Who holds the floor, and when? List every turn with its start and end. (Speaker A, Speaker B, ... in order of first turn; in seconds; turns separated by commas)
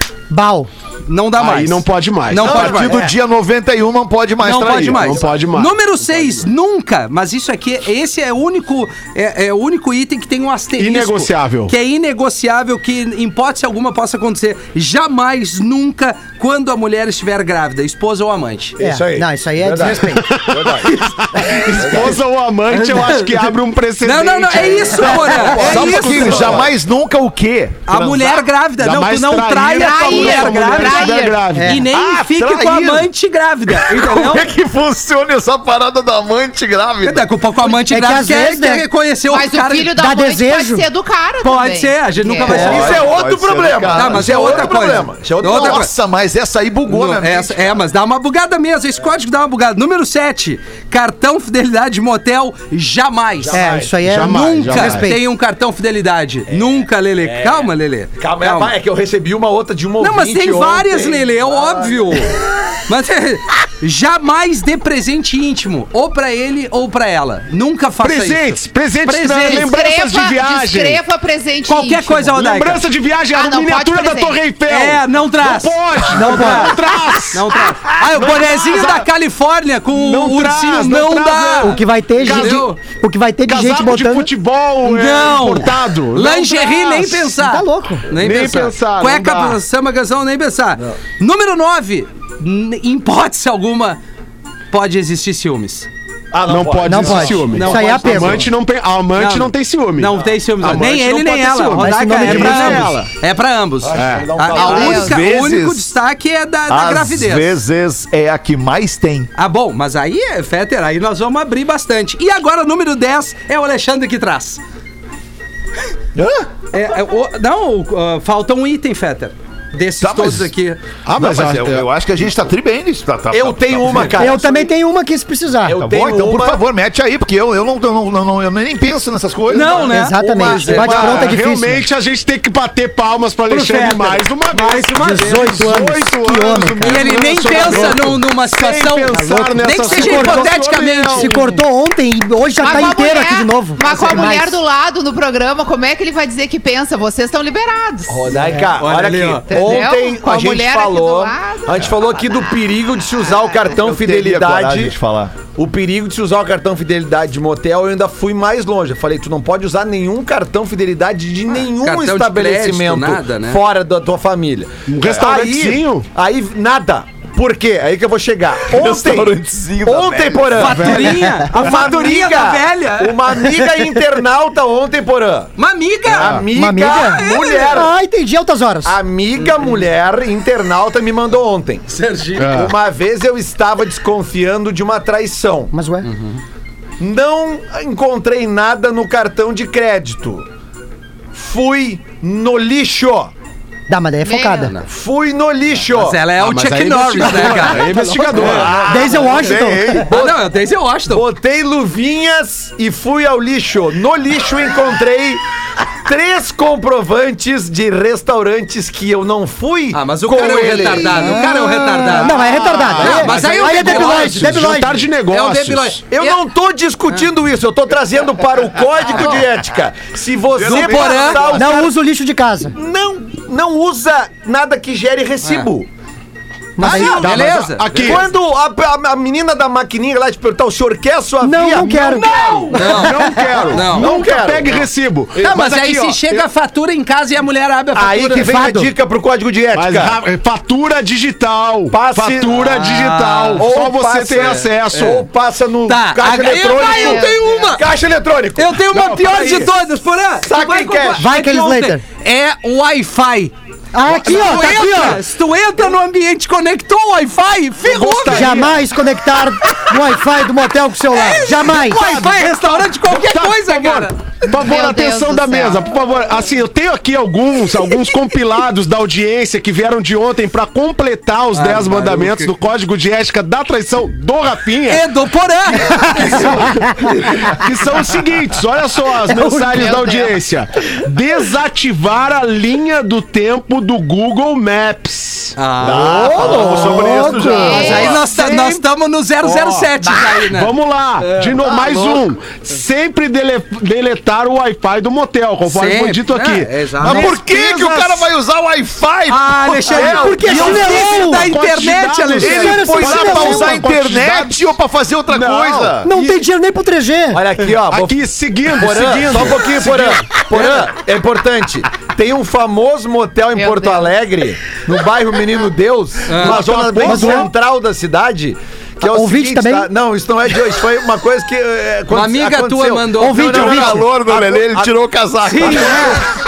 Speaker A: 0.3-0.7, Speaker B: 1.1-3.0, Speaker C: 1.4-2.9, Speaker D: 2.4-5.2, Speaker E: 2.4-3.0, Speaker B: 4.4-18.7, Speaker C: 4.8-6.4, Speaker C: 10.8-11.7, Speaker E: 18.8-22.2, Speaker A: 18.8-20.3, Speaker C: 20.1-26.6, Speaker B: 22.7-26.5, Speaker A: 25.1-25.5, Speaker E: 25.4-26.7, Speaker D: 25.5-28.2, Speaker B: 27.9-31.1, Speaker C: 27.9-31.8, Speaker F: 29.7-31.4, Speaker A: 31.5-31.8, Speaker B: 31.6-34.5, Speaker D: 31.9-33.1, Speaker D: 33.7-37.3, Speaker B: 37.0-39.9, Speaker A: 37.8-38.9, Speaker F: 39.3-42.7, Speaker A: 39.9-40.9, Speaker B: 41.4-43.0, Speaker E: 42.6-45.9, Speaker D: 42.6-47.8, Speaker B: 43.9-45.9, Speaker B: 46.9-53.6, Speaker E: 53.4-54.0, Speaker A: 53.5-55.2, Speaker C: 54.0-55.1, Speaker B: 54.2-58.7, Speaker E: 56.5-62.4, Speaker B: 60.0-62.3, Speaker B: 62.9-69.7, Speaker C: 68.0-71.0, Speaker F: 69.4-72.3, Speaker B: 71.7-72.8, Speaker C: 72.3-77.5, Speaker F: 73.3-74.4, Speaker B: 74.7-76.8, Speaker A: 76.1-76.8, Speaker B: 77.3-82.8, Speaker C: 78.0-79.0, Speaker C: 79.9-82.8, Speaker A: 81.6-84.3, Speaker C: 83.4-87.3, Speaker B: 84.8-94.0, Speaker A: 87.3-88.0, Speaker C: 88.1-89.6, Speaker B: 94.7-95.9, Speaker E: 96.3-97.6, Speaker C: 96.5-103.1, Speaker A: 96.8-98.5, Speaker B: 97.5-98.5, Speaker B: 99.1-107.5, Speaker A: 101.8-103.0, Speaker E: 103.8-105.0, Speaker C: 103.9-104.3, Speaker F: 104.5-105.2, Speaker D: 104.5-105.9, Speaker D: 106.7-109.3, Speaker B: 109.3-114.6, Speaker B: 116.7-120.8, Speaker D: 120.0-120.5, Speaker C: 121.0-121.8, Speaker D: 121.2-124.2, Speaker E: 123.3-124.7, Speaker A: 124.2-125.8, Speaker E: 125.7-126.6, Speaker D: 125.8-129.9, Speaker B: 129.5-131.3, Speaker A: 129.8-131.8, Speaker C: 130.4-141.4, Speaker D: 130.6-131.1, Speaker B: 133.5-135.7, Speaker A: 134.9-138.0, Speaker B: 136.8-141.6, Speaker A: 139.1-144.6, Speaker F: 142.6-148.3, Speaker E: 148.1-155.0, Speaker B: 148.8-149.9, Speaker F: 149.5-152.4, Speaker D: 153.7-155.3, Speaker E: 155.5-175.5, Speaker B: 161.8-163.6, Speaker C: 164.9-166.1, Speaker B: 165.2-165.5, Speaker D: 168.7-170.8, Speaker B: 170.6-173.5, Speaker C: 170.7-171.9, Speaker A: 171.1-171.4, Speaker B: 175.6-177.8, Speaker E: 176.1-177.9, Speaker A: 176.4-178.9, Speaker E: 178.8-181.9, Speaker B: 179.4-179.7, Speaker B: 181.9-182.5, Speaker C: 182.4-182.7, Speaker E: 182.4-185.7, Speaker A: 185.7-186.1, Speaker B: 186.0-186.4, Speaker E: 187.0-190.4, Speaker E: 191.3-193.3, Speaker A: 193.9-194.7, Speaker F: 194.2-194.8, Speaker E: 194.8-196.2, Speaker B: 195.9-198.0, Speaker C: 196.4-198.9, Speaker A: 197.2-200.0, Speaker E: 197.8-200.5, Speaker D: 198.4-200.1, Speaker B: 200.1-201.2, Speaker E: 201.1-211.5, Speaker B: 209.9-214.7, Speaker A: 211.1-215.1, Speaker C: 212.2-216.0, Speaker B: 215.3-216.0, Speaker E: 216.1-221.9, Speaker F: 219.1-219.4, Speaker D: 220.5-221.6, Speaker B: 220.7-221.5, Speaker A: 221.5-222.7, Speaker E: 222.7-225.9, Speaker B: 225.4-225.7, Speaker A: 226.8-227.7, Speaker B: 226.8-228.2, Speaker E: 226.8-232.8, Speaker C: 226.9-228.3, Speaker A: 231.4-233.8, Speaker C: 231.9-236.4, Speaker B: 232.7-234.1, Speaker E: 233.8-235.6, Speaker B: 235.4-238.5, Speaker E: 237.9-240.2, Speaker A: 238.3-238.9, Speaker C: 239.7-245.2, Speaker E: 241.9-242.7, Speaker B: 242.5-243.7, Speaker E: 243.6-249.7, Speaker B: 244.3-245.2, Speaker B: 245.8-247.8, Speaker F: 246.8-247.3, Speaker B: 248.6-253.5, Speaker C: 248.9-249.6, Speaker E: 250.4-251.3, Speaker A: 251.2-252.0, Speaker A: 253.9-255.2, Speaker B: 254.0-258.6, Speaker C: 257.8-258.8, Speaker A: 258.3-262.0, Speaker B: 261.1-264.1, Speaker C: 261.6-275.0, Speaker F: 264.5-265.8, Speaker B: 271.5-272.5, Speaker B: 274.9-276.6, Speaker C: 276.0-285.6, Speaker A: 279.3-279.9, Speaker F: 279.7-280.4, Speaker B: 285.6-286.7, Speaker D: 285.8-288.2, Speaker A: 285.9-287.9, Speaker C: 286.4-288.8, Speaker F: 287.5-288.2, Speaker B: 287.7-292.2, Speaker C: 289.4-298.3, Speaker B: 295.7-297.3, Speaker D: 297.0-300.6, Speaker B: 299.3-302.8, Speaker A: 299.9-301.5, Speaker C: 300.4-304.6, Speaker D: 302.4-306.1, Speaker A: 302.4-303.8, Speaker C: 305.3-306.4, Speaker A: 306.0-307.4, Speaker E: 307.3-325.0, Speaker C: 307.9-310.3, Speaker B: 310.5-310.9, Speaker F: 313.5-314.1, Speaker B: 316.3-316.6, Speaker C: 316.4-317.4, Speaker A: 317.0-317.5, Speaker A: 319.0-319.9, Speaker B: 322.1-323.6, Speaker A: 323.1-324.1, Speaker D: 323.3-326.2, Speaker B: 325.4-326.2, Speaker E: 325.6-326.0